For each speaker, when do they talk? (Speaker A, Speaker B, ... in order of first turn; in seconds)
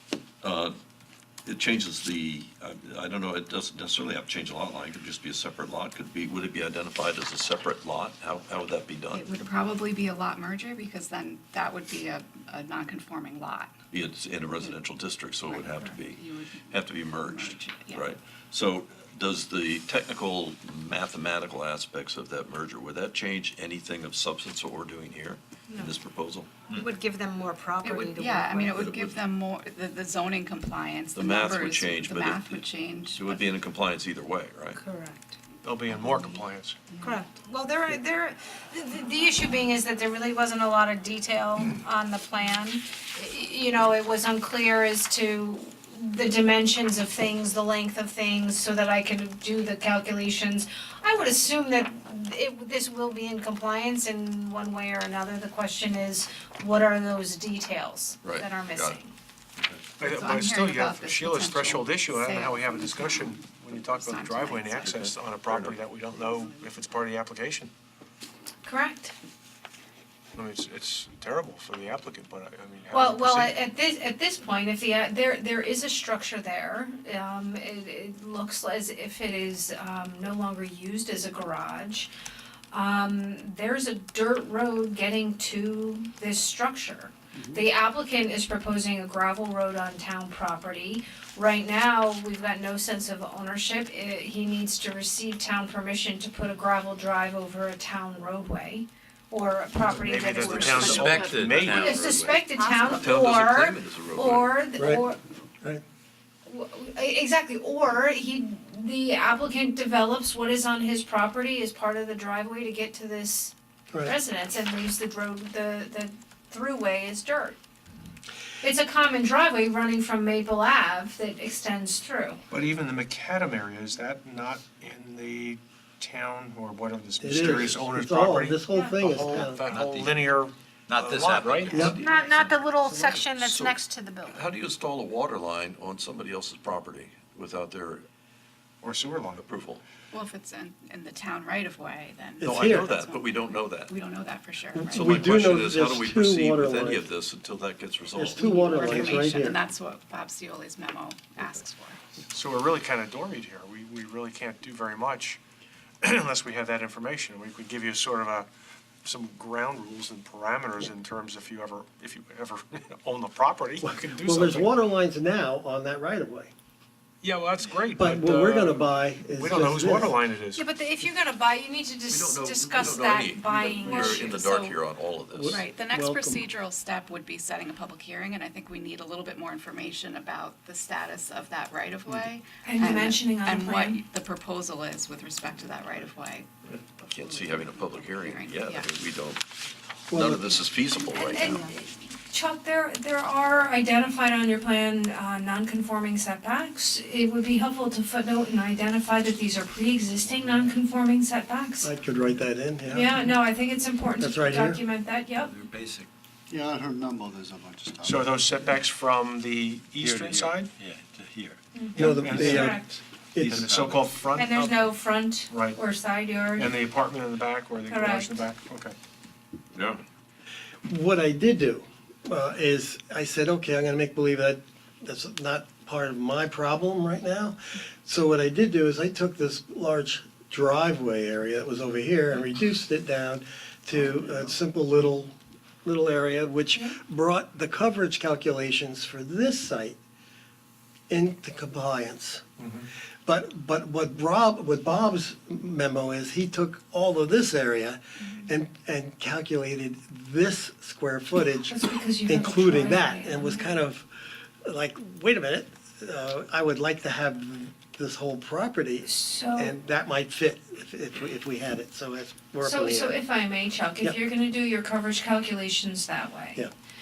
Speaker A: 0.4-0.7, 1.5-9.3, 13.9-26.8, 28.8-29.1, 31.1-34.8, 58.2-59.0, 65.5-65.7, 100.7-104.5, 133.2-138.1, 139.4-139.8, 142.4-144.0, 144.9-148.4, 172.1-175.6, 187.1-189.4, 190.1-191.6, 219.7-220.0
Speaker B: 9.1-13.8, 15.5-18.1, 27.8-33.5, 36.9-37.2, 60.0-65.2, 66.1-66.6, 140.1-145.2, 148.3-152.0, 173.9-174.8, 175.5-188.9
Speaker C: 26.8-28.8, 34.8-35.2, 37.0-59.1, 68.6-69.2, 72.9-82.1, 82.7-105.2, 106.5-117.6, 118.6-122.4, 128.7-129.0, 131.8-134.4, 148.6-149.1, 170.6-174.4, 182.6-184.0, 191.0-201.9, 202.9-205.5, 211.8-212.9, 214.3-216.7, 217.9-218.5, 251.4-253.7, 259.0-259.7, 262.6-266.6
Speaker D: 35.6-36.8, 60.0-67.7, 70.3-73.6, 99.9-102.2, 122.5-131.8, 138.8-139.5, 152.3-155.4, 156.0-158.5, 159.0-164.7, 167.2-170.7, 208.0-210.7, 211.9-214.9, 215.5-215.8, 216.6-218.9, 242.6-242.9
Speaker E: 100.4-103.1, 129.7-130.3, 130.9-132.5, 205.5-206.1, 210.9-211.6, 213.4-214.1
Speaker F: 104.8-105.0, 127.2-129.7, 131.7-132.0, 142.4-142.9, 144.8-147.1, 148.1-149.6, 163.8-166.5, 168.0-170.1, 175.3-176.4, 190.1-190.7, 201.8-203.1, 204.2-204.8, 211.9-213.7, 220.9-235.3, 235.8-240.0, 241.1-242.4, 243.2-263.2
Speaker G: 206.5-208.6, 210.0-210.5